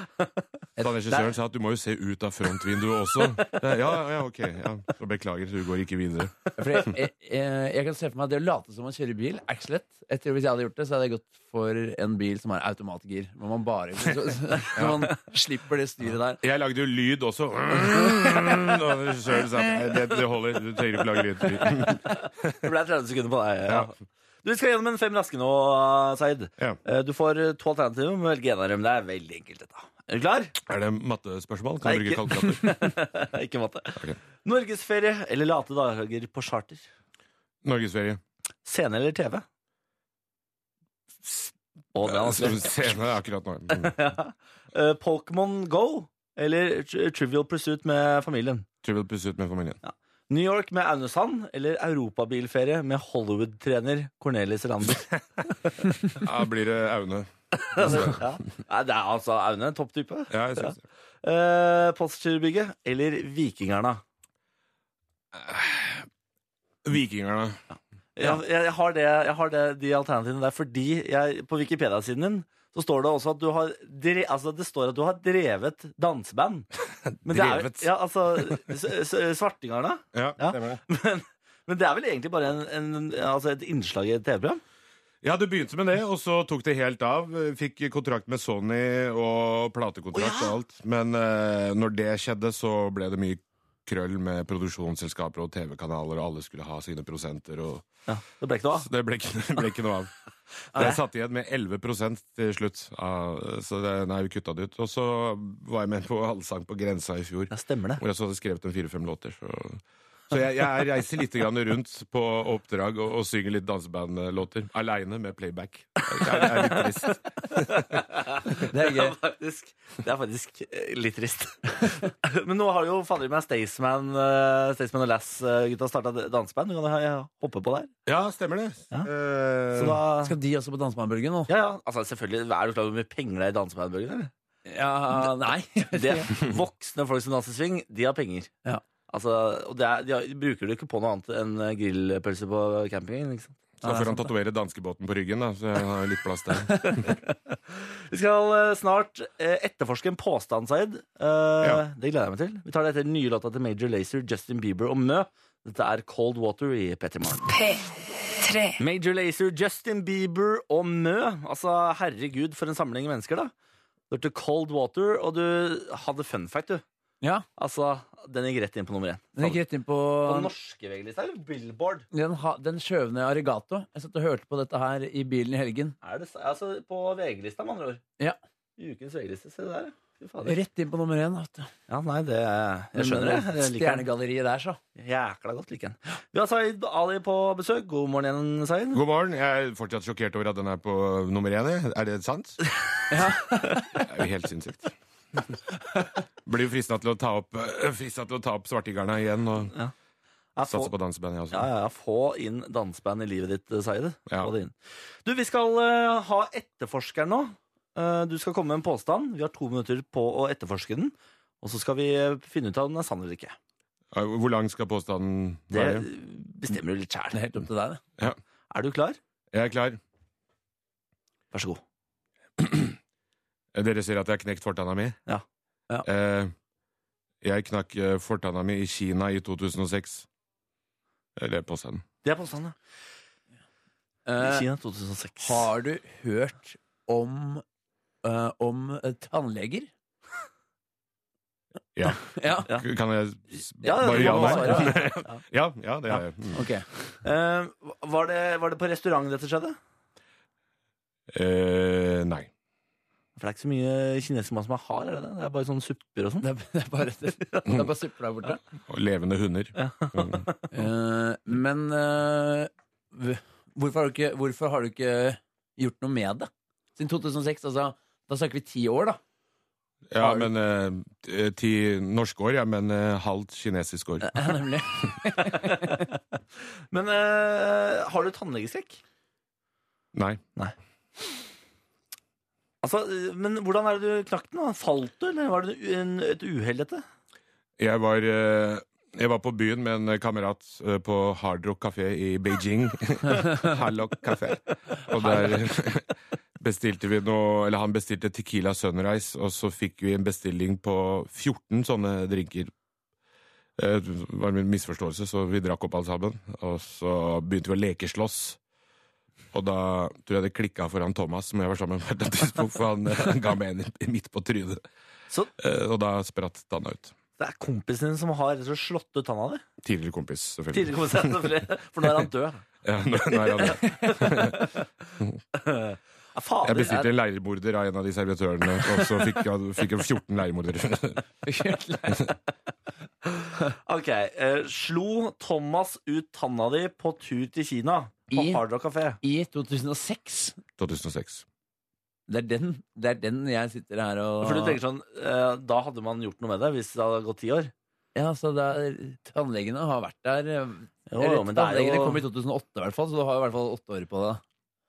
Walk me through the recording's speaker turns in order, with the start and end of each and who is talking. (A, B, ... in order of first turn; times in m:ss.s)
0:00.8-0:06.4 A
0:06.6-0:16.4 B
0:14.7-0:15.1 A
0:16.4-0:22.6 A
0:21.8-0:30.6 C
0:30.7-0:32.9 A
0:31.8-0:36.9 C
0:37.6-0:38.2 A
0:38.6-0:39.4 C
0:41.9-0:43.0 C
0:42.0-0:44.0 A
0:43.7-0:48.6 C
0:48.8-0:49.8 A
0:49.8-0:55.1 C
0:56.1-0:58.2 A
0:57.6-1:04.0 C
1:00.3-1:00.8 A
1:05.3-1:06.1 A
1:06.8-1:07.6 A
1:08.2-1:16.7 C
1:17.1-1:17.9 A
1:17.2-1:24.6 C
1:20.1-1:20.8 A
1:25.2-1:37.9 A
1:30.1-1:30.5 C
1:38.1-1:38.9 C
1:38.8-1:40.1 A
1:40.7-1:57.8 A
1:47.5-1:48.0 C
1:56.2-1:56.9 C
1:57.5-2:07.9 C
1:58.6-1:59.2 B
2:08.1-2:10.0 A
2:09.7-2:10.3 C
2:10.2-2:11.5 B
2:11.5-2:14.3 C
2:14.6-2:16.3 B
2:15.9-2:18.5 C
2:19.1-2:23.6 C
2:23.8-2:27.1 A
2:23.8-2:24.3 B
2:26.8-2:37.6 C
2:38.8-2:43.5 C
2:44.1-2:46.8 C
2:47.6-2:49.6 C
2:49.4-2:50.5 B
2:50.2-2:52.1 C
2:52.1-2:55.9 B
2:56.0-2:58.0 C
2:58.8-3:00.6 C
3:00.4-3:01.7 B
3:01.9-3:04.1 C
3:02.9-3:04.8 B
3:05.0-3:09.0 C
3:08.9-3:12.6 A
3:13.1-3:13.8 B
3:13.9-3:14.9 A
3:16.4-3:19.7 A
3:20.6-3:20.9 C
3:20.7-3:21.7 A
3:21.5-3:24.7 C
3:25.2-3:33.6 C
3:34.1-3:36.1 A
3:35.7-3:37.4 C
3:37.3-3:38.0 B
3:38.7-3:39.2 C
3:39.5-3:40.0 A
3:41.5-3:41.8 C
3:42.6-3:43.0 A
3:43.7-3:45.2 A
3:46.0-3:46.5 A
3:47.4-3:50.3 A
3:51.4-3:52.0 A
3:52.2-3:52.8 C
3:54.3-3:54.7 B
3:54.4-3:55.7 C
3:55.4-3:57.6 B
3:58.2-3:59.9 B
4:02.0-4:06.6 A
4:02.2-4:02.7 B
4:03.8-4:05.1 B
4:03.8-4:05.4 C
4:06.5-4:06.9 B
4:07.2-4:09.8 C
4:11.3-4:12.5 A
4:13.4-4:16.5 C
4:16.4-4:18.6 B
4:18.9-4:20.5 A
4:19.8-4:20.6 C
4:20.7-4:29.2 B
4:30.1-4:34.4 A
4:30.2-4:30.5 B
4:34.2-4:36.0 B
4:35.5-4:36.0 C
4:36.9-4:39.0 C
4:40.1-4:40.4 A
4:42.8-4:47.0 C
4:47.8-5:02.7 A
4:55.2-4:55.6 B
5:03.8-5:08.6 A
5:09.5-5:14.8 A
5:15.6-5:17.1 A
5:17.4-5:19.6 C
5:19.8-5:21.6 A
5:20.7-5:22.6 C
5:22.8-5:24.7 A
5:23.6-5:24.8 C
5:23.6-5:24.3 B
5:25.5-5:27.1 C
5:26.6-5:31.2 A
5:31.4-5:32.3 B
5:33.4-5:39.2 C
5:38.3-5:38.6 B
5:39.2-5:40.6 B
5:40.8-5:41.4 A
5:42.3-5:44.8 B
5:44.4-5:47.7 C
5:48.1-5:54.4 B
5:51.1-5:52.2 C